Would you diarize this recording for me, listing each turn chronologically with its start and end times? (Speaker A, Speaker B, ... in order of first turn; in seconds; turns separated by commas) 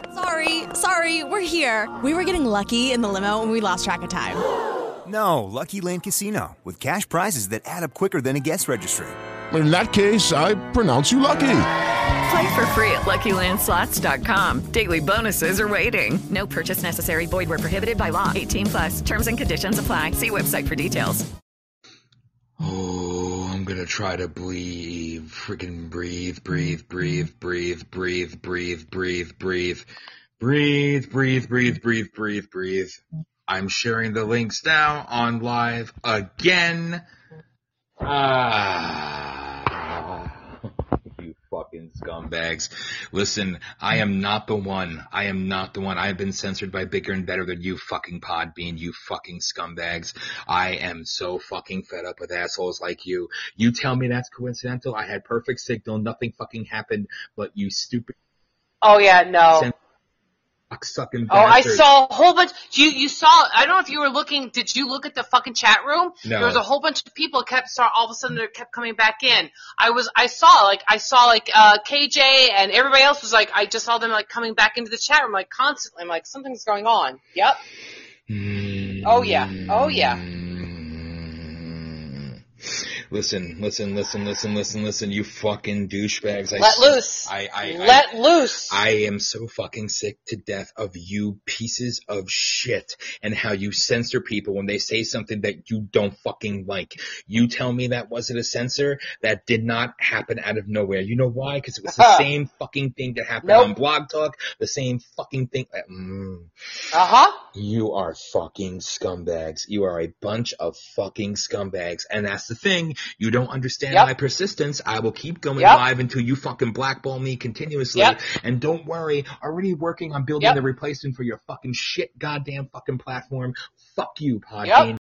Speaker A: 0.1-4.4, Speaker B: 5.0-9.2, Speaker C: 9.5-11.7, Speaker D: 12.2-21.3, Speaker E: 22.6-29.9, Speaker E: 30.4-37.0, Speaker E: 38.0-58.1, Speaker F: 58.8-59.7, Speaker E: 59.5-59.7, Speaker E: 60.7-61.9, Speaker F: 61.3-77.6, Speaker E: 66.2-66.6, Speaker E: 78.3-82.3, Speaker F: 79.0-80.2, Speaker E: 83.1-125.0, Speaker F: 86.6-88.8, Speaker F: 101.9-102.3, Speaker F: 103.4-103.7, Speaker F: 106.9-107.4, Speaker F: 115.6-115.8, Speaker F: 124.6-124.9